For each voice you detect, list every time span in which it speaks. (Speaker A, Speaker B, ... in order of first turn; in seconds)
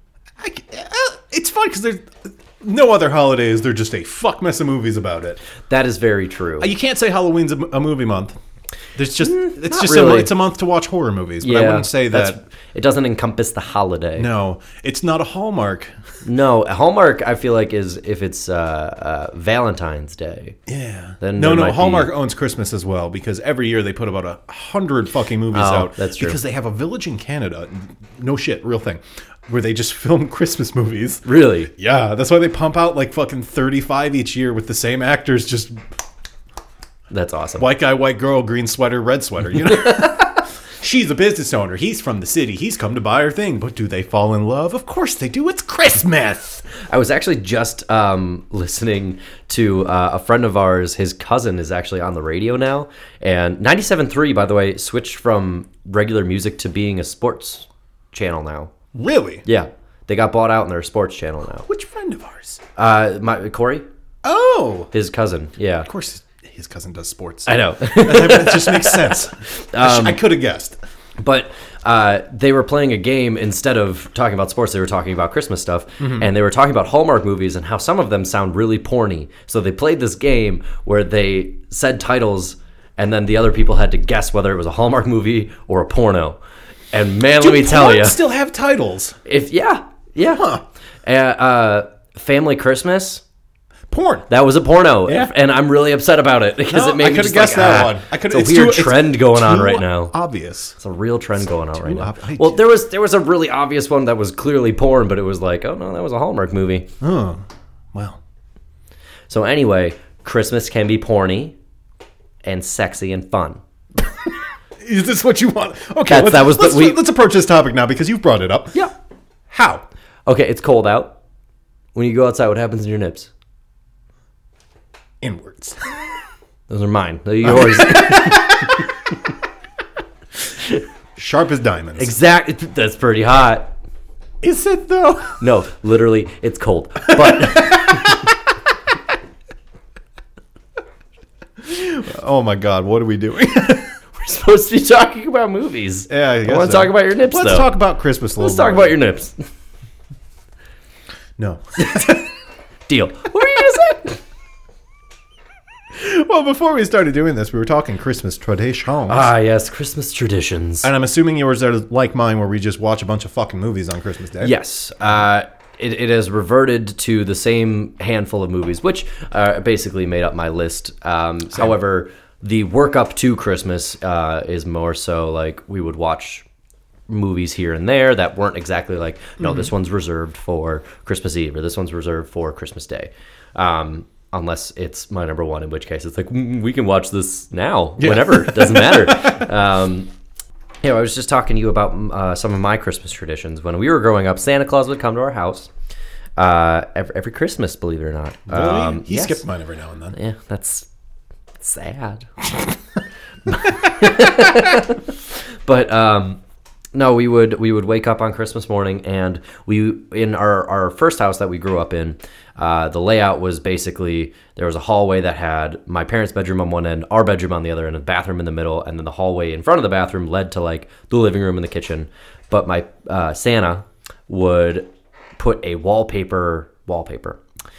Speaker A: 0.4-5.4, 6.6-8.4, 8.9-12.4, 14.2-15.9, 20.7-35.8, 37.6-46.6, 58.9-59.4, 61.7-62.6, 64.2-64.9, 65.8-70.8, 76.0-76.3, 87.4-89.2, 90.3-90.6, 93.9-94.3, 95.0-95.3, 96.7-100.8, 101.4-102.6, 107.0-108.2, 114.8-118.8, 119.5-119.8, 125.2-126.1, 127.4-128.9, 131.2-132.1, 134.4-135.4, 137.1-138.3, 141.6-143.9, 146.1-149.0, 151.4-152.2, 155.9-159.3, 160.8-164.5, 179.4-179.7, 188.0-189.5, 198.5-200.2
Speaker B: 5.7-6.7, 9.2-10.3, 11.4-14.3, 16.2-20.6, 21.2-22.1, 25.5-26.4, 31.2-31.7, 37.1-37.6, 39.7-40.4, 46.9-58.7, 59.5-61.7, 62.8-63.8, 64.9-65.9, 67.5-70.2, 71.2-86.4, 86.9-88.2, 89.2-90.5, 91.0-93.2, 94.3-100.1, 100.8-106.9, 109.3-111.5, 112.4-113.6, 116.1-117.0, 120.3-121.2, 121.9-123.3, 126.7-128.9, 131.9-133.7, 135.4-138.2, 144.1-147.7, 148.4-149.3, 151.8-152.2, 152.9-154.2, 159.1-160.9, 164.4-176.4, 177.1-190.1, 190.8-195.7, 196.4-199.4, 200.1-200.9, 201.6-202.3, 203.4-206.4, 206.9-227.4